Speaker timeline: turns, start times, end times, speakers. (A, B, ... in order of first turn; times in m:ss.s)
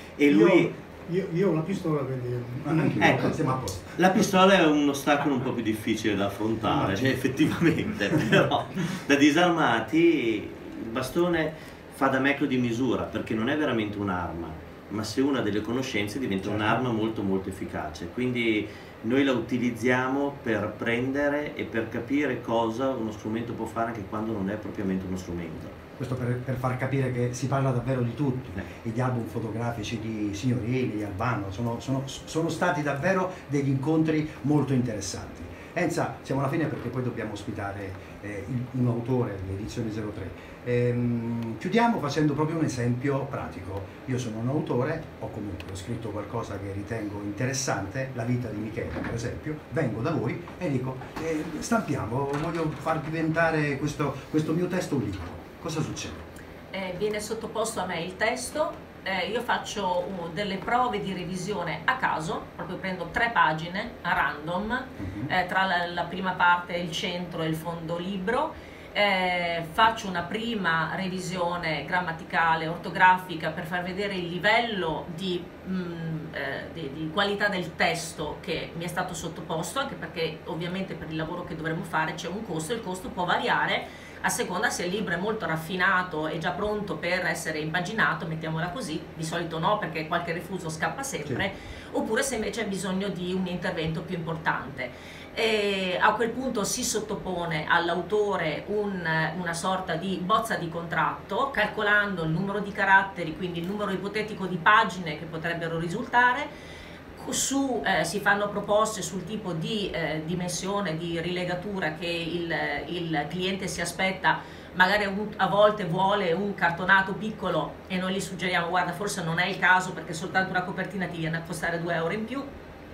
0:00.2-0:00.7 A
0:00.3-0:03.4 B
0:02.6-0:04.0 C
0:03.0-0:03.4 A
0:04.0-0:25.8 A
0:06.7-0:07.1 C
0:16.4-0:16.8 C
0:26.0-0:56.3 C
0:56.7-1:46.5 D
1:05.0-1:05.3 C
1:47.2-2:02.5 D